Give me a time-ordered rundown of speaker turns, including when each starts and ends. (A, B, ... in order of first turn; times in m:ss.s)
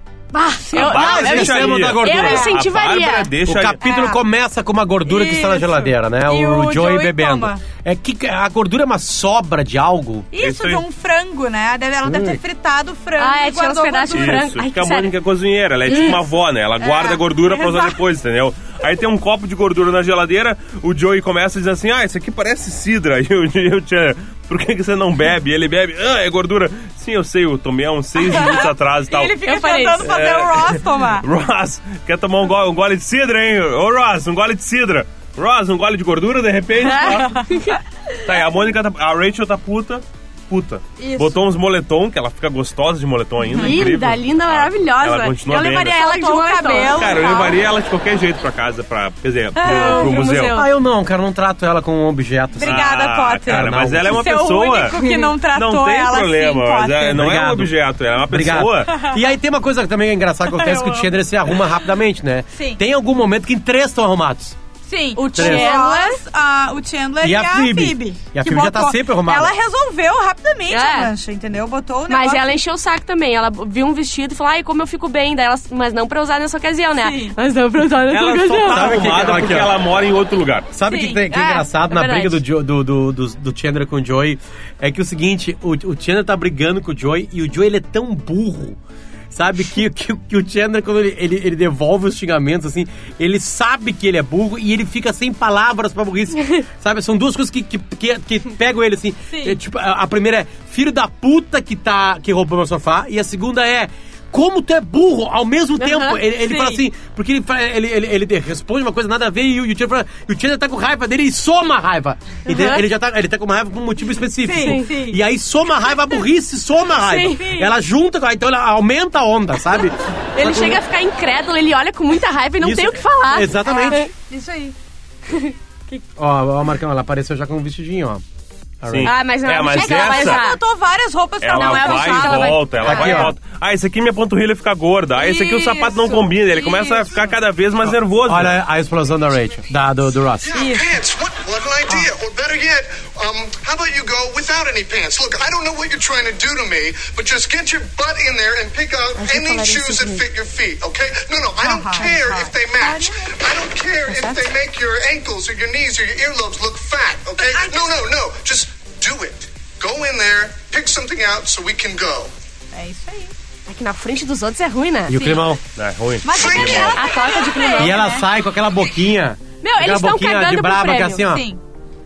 0:00.3-0:03.3 A
0:00.7-0:01.3 B
0:00.7-0:03.8 C
0:00.8-0:02.5 D
0:02.1-0:02.5 B
0:03.5-0:10.3 D
0:03.8-0:04.2 B
0:05.0-0:07.6 B
0:10.3-0:14.5 B
0:10.4-0:10.8 C
0:12.0-0:12.4 D
0:13.2-0:15.1 A
0:14.2-0:29.4 C
0:15.9-0:16.2 A
0:16.8-0:18.0 B
0:28.2-0:31.2 B
0:29.4-0:30.1 A
0:30.0-0:37.4 C
0:36.8-0:37.8 A
0:38.2-0:46.0 C
0:41.0-0:41.4 B
0:43.5-0:43.8 B
0:43.5-0:47.4 A
0:45.5-0:47.6 B
0:46.9-0:50.6 C
0:49.6-0:50.5 B
0:49.6-0:50.7 A
0:50.5-0:52.9 D
0:52.6-0:57.2 B
0:52.6-0:58.9 C
0:53.5-0:54.2 D
0:55.0-0:55.3 A
0:57.1-0:57.7 D
0:58.2-1:04.6 D
1:00.5-1:01.1 B
1:04.9-1:12.5 B
1:05.2-1:06.2 A
1:05.3-1:05.7 D
1:07.2-1:09.6 D
1:10.7-1:11.1 A
1:12.1-1:19.0 A
1:17.0-1:17.4 B
1:18.1-1:20.7 C
1:18.6-1:19.8 D
1:20.7-1:28.8 D
1:20.9-1:21.2 B
1:21.3-1:22.4 A
1:29.3-2:00.8 D
1:39.3-1:39.6 B
1:45.8-1:46.2 A
1:46.4-1:46.8 B
1:52.5-1:52.8 A
1:54.4-1:55.2 B
1:54.6-1:54.9 A
1:57.0-1:57.7 A
2:00.4-2:04.1 A
2:02.6-2:04.0 D
2:03.6-2:04.8 B
2:05.3-2:06.0 A
2:06.2-2:08.2 D
2:08.8-2:09.2 D
2:08.9-2:10.4 C
2:09.0-2:10.6 A
2:09.7-2:13.2 B
2:11.4-2:18.6 C
2:11.5-2:13.3 A
2:12.8-2:13.4 D
2:15.2-2:17.3 B
2:18.2-2:20.6 D
2:20.5-2:42.3 E
2:20.6-2:20.9 B
2:29.2-2:30.2 A
2:31.6-2:33.3 B
2:37.4-2:38.0 B
2:42.7-2:43.3 B
2:43.7-2:45.2 A
2:45.1-2:45.6 D
2:45.2-2:45.4 B
2:45.8-2:47.0 C
2:46.2-2:48.3 B
2:46.3-2:47.1 E
2:46.9-2:48.0 A
2:47.8-2:51.5 D
2:49.6-2:51.3 A
2:51.2-2:51.6 B